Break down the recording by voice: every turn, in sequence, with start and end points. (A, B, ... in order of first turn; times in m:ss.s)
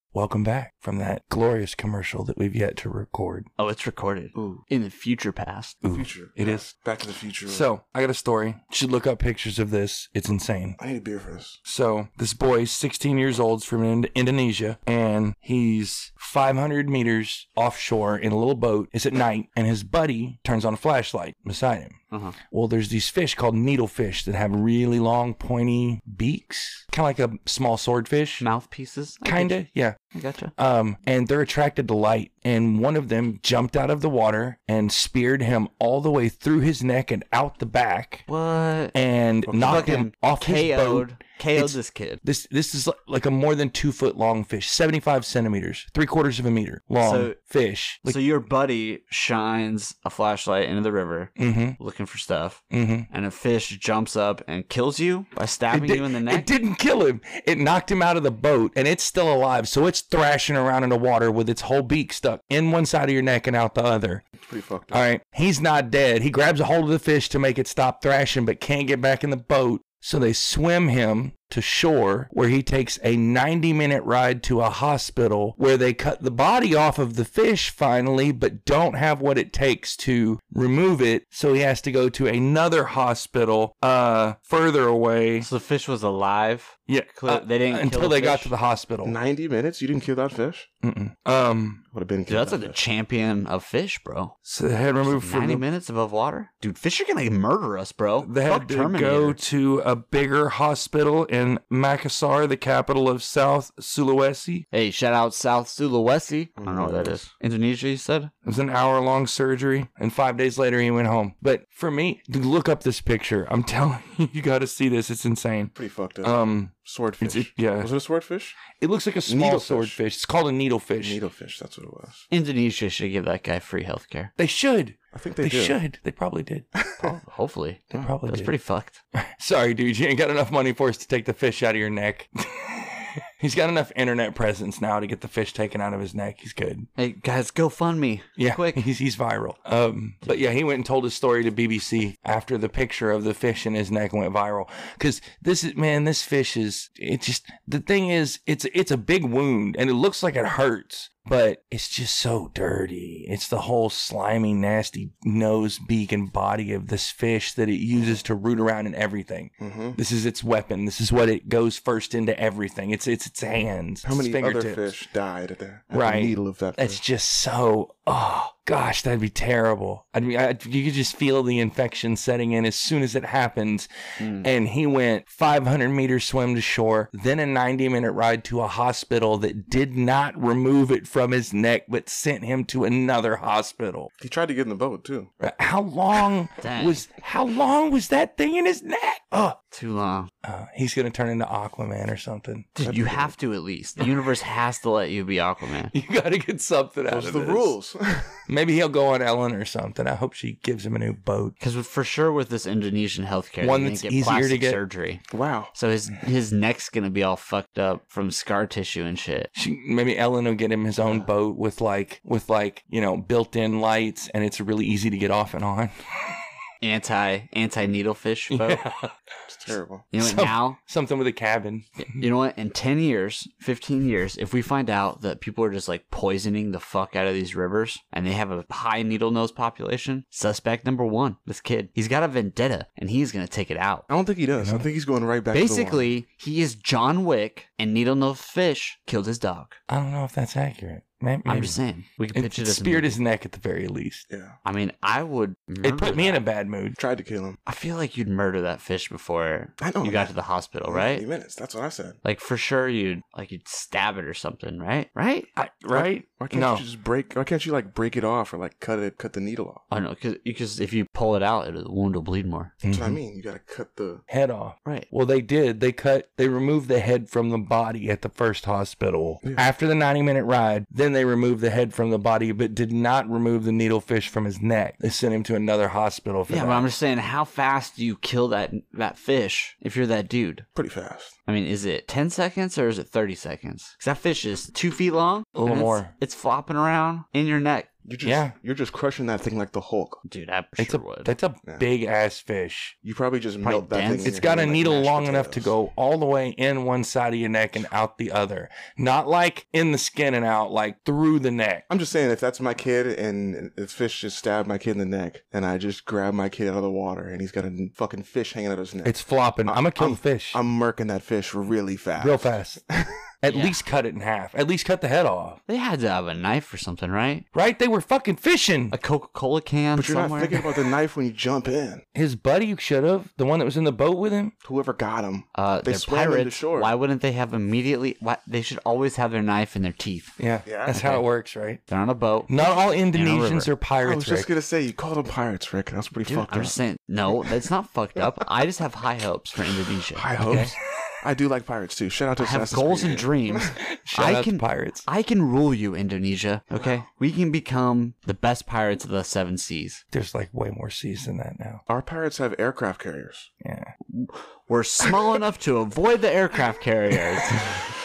0:00.1-0:03.5 A
0:03.6-0:05.8 B
0:04.4-0:04.6 C
0:05.8-0:06.7 A
0:05.9-0:07.7 C
0:07.5-0:10.8 A
0:10.8-0:11.6 C
0:11.6-0:22.0 A
0:22.1-0:22.4 B
0:22.5-0:28.4 A
0:28.4-0:29.6 B
0:29.2-0:30.0 A
0:30.1-0:30.5 B
0:30.6-0:38.2 A
0:38.3-0:39.0 B
0:38.9-0:48.2 A
0:39.5-0:40.0 C
0:39.6-0:42.2 B
0:47.0-0:47.4 B
0:48.1-0:56.5 B
0:51.4-0:51.8 A
0:52.7-0:53.1 A
0:55.7-1:04.3 A
1:04.4-1:05.0 C
1:04.9-1:25.5 A
1:25.4-1:28.5 B
1:26.9-1:29.2 A
1:29.0-1:30.7 C
1:30.8-1:31.8 A
1:31.9-1:32.8 C
1:32.3-1:34.4 B
1:34.5-1:35.6 A
1:35.0-1:39.4 B
1:38.2-1:44.7 A
1:44.7-1:48.3 B
1:46.6-1:47.2 C
1:48.4-1:57.9 A
1:55.8-1:58.6 C
1:58.8-2:01.2 A
1:59.3-2:00.0 C
2:01.0-2:02.3 C
2:02.3-2:04.3 B
2:04.4-2:06.7 A
2:05.1-2:05.8 C
2:06.8-2:07.2 C
2:07.0-2:09.0 B
2:08.0-2:08.5 A
2:09.2-2:16.9 A
2:17.0-2:18.8 B
2:18.4-2:44.9 A
2:38.0-2:38.2 C
2:39.6-2:40.0 C
2:44.0-2:47.0 C
2:45.9-3:04.1 A
2:54.2-2:54.5 B
3:04.2-3:05.4 C
3:05.4-3:09.6 A
3:06.6-3:07.0 B
3:09.6-3:10.3 B
3:10.4-3:12.7 A
3:12.8-3:15.9 B
3:12.8-3:13.3 C
3:15.9-3:17.7 A
3:17.1-3:18.4 C
3:18.5-3:21.6 A
3:21.6-3:29.5 B
3:23.6-3:24.8 A
3:25.3-3:25.7 C
3:29.6-3:36.4 A
3:36.8-3:38.8 B
3:38.5-3:39.1 A
3:39.5-3:40.1 C
3:40.1-3:40.8 B
3:40.2-3:42.2 A
3:42.0-3:54.1 B
3:54.1-3:56.1 C
3:54.6-3:54.9 A
3:55.5-3:59.8 B
3:59.9-4:01.8 A
4:01.5-4:03.2 B
4:02.3-4:04.2 A
4:04.3-4:04.6 C
4:04.6-4:06.4 B
4:05.8-4:07.0 A
4:07.0-4:07.6 C
4:07.7-4:11.3 B
4:09.8-4:10.3 C
4:10.9-4:12.2 C
4:12.2-4:15.5 B
4:15.6-4:16.8 A
4:15.9-4:19.8 C
4:19.9-4:22.8 B
4:22.8-4:23.2 A
4:22.9-4:24.2 C
4:24.3-4:36.9 A
4:36.5-4:40.7 B
4:40.8-4:41.3 C
4:41.5-4:47.9 B
4:45.6-4:46.1 A
4:48.0-4:50.2 C
4:48.2-4:48.5 A
4:50.3-4:51.3 B
4:50.8-4:53.0 A
4:53.0-4:55.7 C
4:53.6-4:54.5 B
4:54.2-5:01.8 A
5:01.9-5:13.2 C
5:09.0-5:10.6 A
5:12.2-5:12.8 A
5:13.4-5:15.6 A
5:13.5-5:13.8 B
5:15.7-5:17.5 B
5:17.5-5:19.0 A
5:18.9-5:20.6 B
5:20.0-5:22.0 C
5:22.2-5:24.5 A
5:24.6-5:26.9 C
5:25.6-5:30.4 B
5:30.4-5:31.8 A
5:30.6-5:31.0 C
5:30.9-5:31.2 B
5:31.9-5:33.7 B
5:32.5-5:34.5 A
5:34.0-5:36.8 C
5:36.2-5:40.7 B
5:40.1-5:43.7 C
5:42.4-5:50.0 B
5:43.8-5:45.1 A
5:50.1-5:51.8 A
5:51.9-5:53.5 C
5:53.6-5:53.9 A
5:54.1-5:57.9 B